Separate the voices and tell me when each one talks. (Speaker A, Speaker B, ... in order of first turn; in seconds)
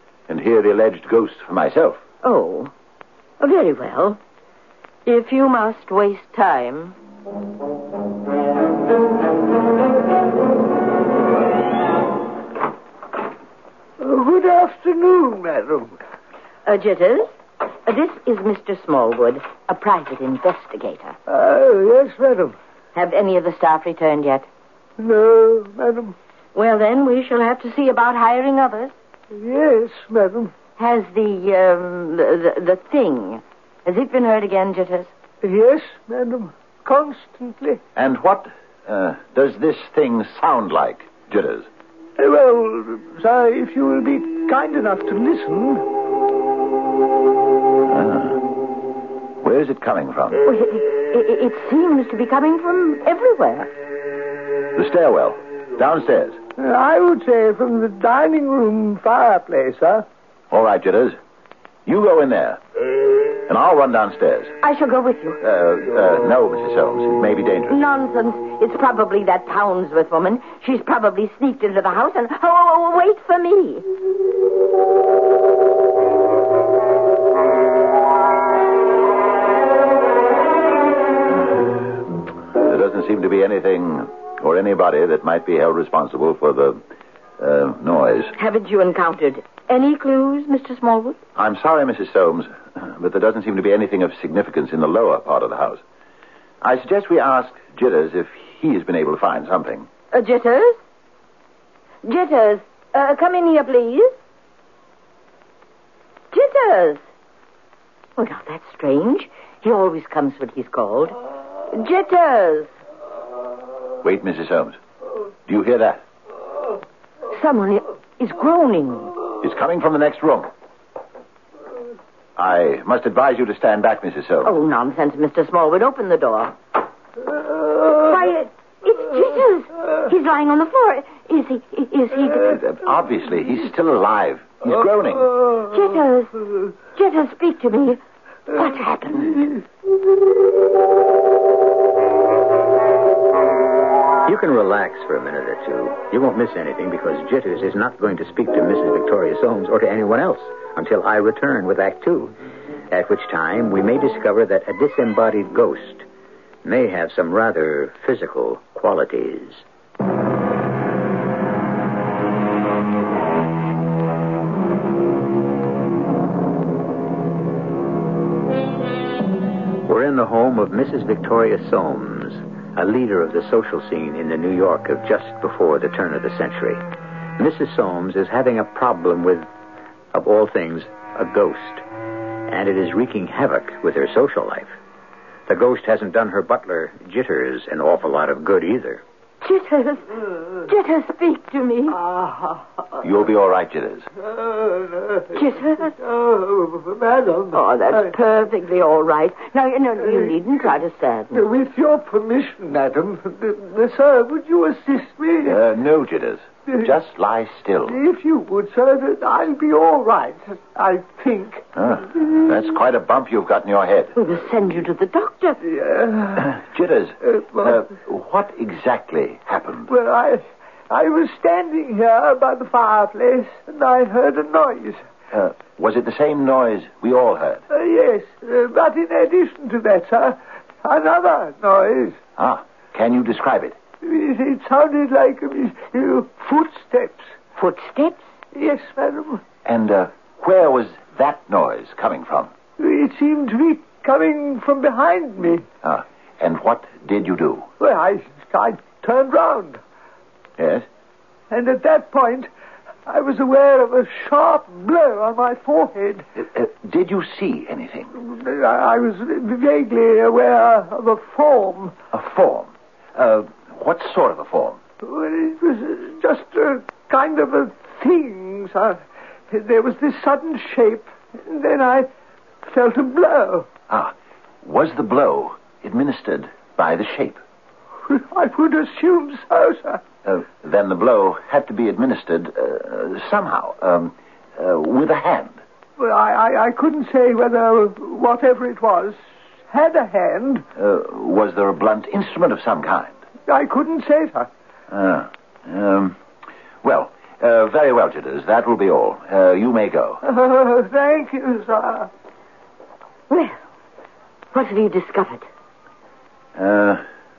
Speaker A: 0.3-2.0, 38.0-41.7, 47.9-48.4, 49.4-50.4, 54.8-56.4, 60.5-61.2, 61.9-62.6, 63.5-64.5, 65.4-67.8, 81.3-82.0, 82.6-86.8, 87.4-88.3, 91.4-95.8, 96.6-99.9, 114.0-114.8, 115.5-116.0, 119.4-120.5, 122.4-124.5, 132.4-135.4, 193.0-194.1, 205.4-208.0, 211.8-214.1, 216.4-219.9, 225.3-227.6, 232.4-233.8, 239.7-242.5, 245.8-247.7, 250.6-250.8, 256.4-258.1, 262.1-264.8, 273.9-277.4, 280.2-285.6, 290.8-293.1, 294.9-296.2, 296.8-300.2, 306.6-307.0
Speaker B: 2.2-2.7, 3.4-4.2, 5.1-7.0, 16.7-17.3, 17.9-21.1, 22.9-24.5, 26.6-28.9, 30.8-35.1, 50.5-53.7, 64.6-65.4, 67.7-73.8, 88.4-91.2, 100.1-100.8, 102.0-104.1, 106.3-107.0, 108.2-111.2, 111.7-112.7, 117.3-119.1, 124.4-126.5, 127.9-132.6, 135.7-136.4, 136.9-138.0, 138.5-139.6, 189.4-192.0, 195.3-195.9, 197.5-201.4, 214.2-215.6, 237.6-238.3, 303.3-303.6, 304.5-305.5
Speaker C: 14.0-16.0, 21.3-22.6, 25.0-26.1, 29.3-30.5, 35.4-37.8, 42.2-45.9, 56.6-60.0, 191.9-192.8, 194.2-198.1, 200.0-200.4, 201.3-205.6, 207.9-211.7, 215.6-216.6, 217.3-217.8, 219.9-225.0, 227.7-232.2, 234.0-237.3, 238.5-239.4, 242.8-245.7, 247.8-249.8, 251.5-252.5, 253.1-256.2, 258.2-261.9, 265.0-269.0, 269.5-272.1, 272.6-273.7, 278.1-280.0, 286.0-289.2, 289.7-290.6, 293.5-294.5, 300.2-302.1
Speaker D: 144.2-152.4, 152.9-156.1, 156.6-159.7, 169.8-176.8, 177.4-179.5, 180.1-181.8, 182.5-184.8, 185.5-189.0